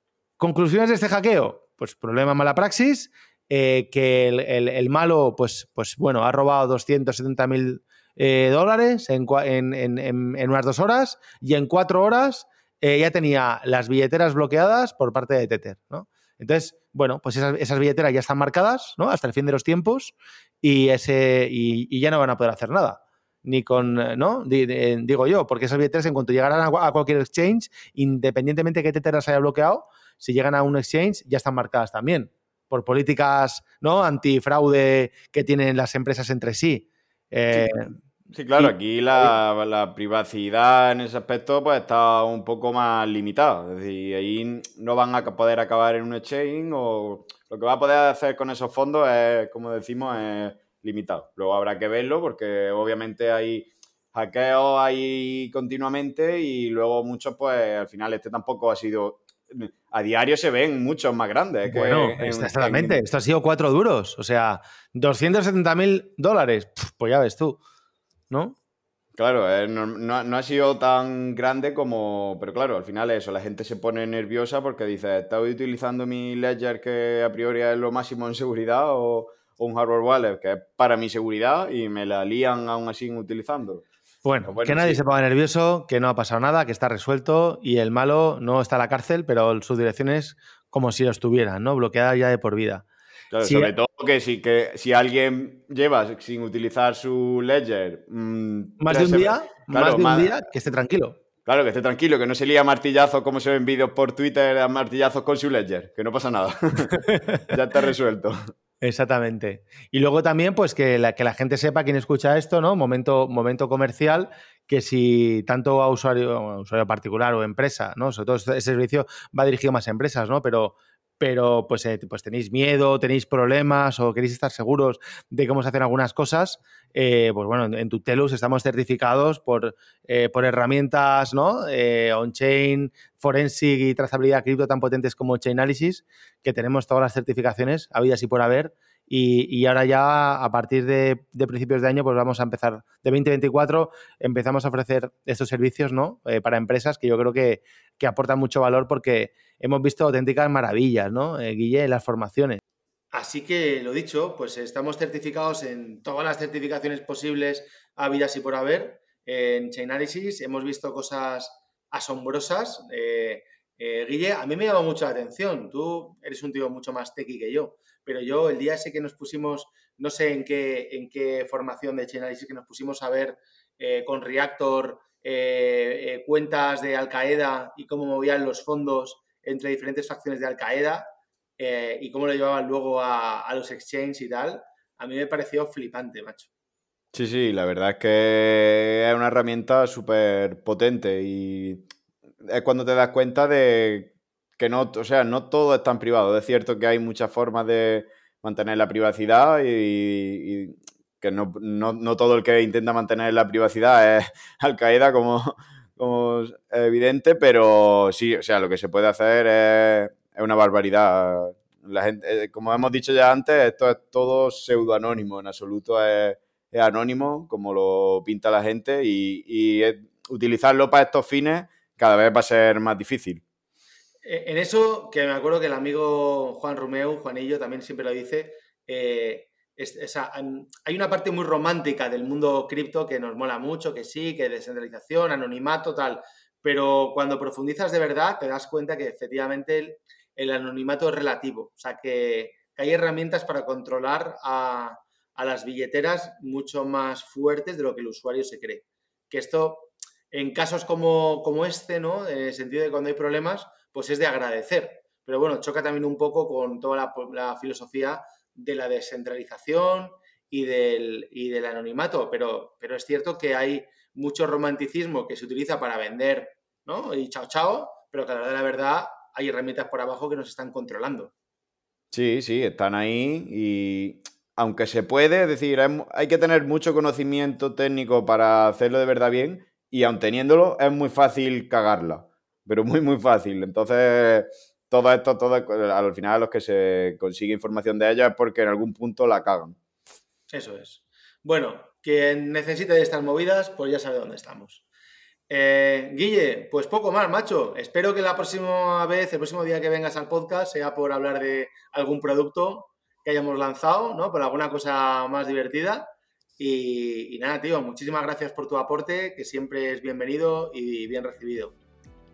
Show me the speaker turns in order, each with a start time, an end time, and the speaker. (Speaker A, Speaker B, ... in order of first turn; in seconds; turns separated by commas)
Speaker A: 0.4-37.9, Speaker B: 37.5-37.8, Speaker B: 38.3-63.0, Speaker A: 38.6-39.3, Speaker A: 61.7-67.6, Speaker A: 68.3-68.6, Speaker B: 69.1-83.8, Speaker A: 84.2-92.8, Speaker B: 84.5-85.0, Speaker B: 93.3-100.3, Speaker A: 93.4-93.7, Speaker A: 98.8-101.2, Speaker B: 101.4-108.4, Speaker A: 106.9-107.5, Speaker A: 108.8-152.6, Speaker A: 153.1-181.0, Speaker A: 181.6-186.5, Speaker B: 187.1-191.8, Speaker B: 192.4-223.4, Speaker A: 224.2-271.3, Speaker B: 272.1-289.8, Speaker A: 290.5-294.8, Speaker A: 295.5-311.8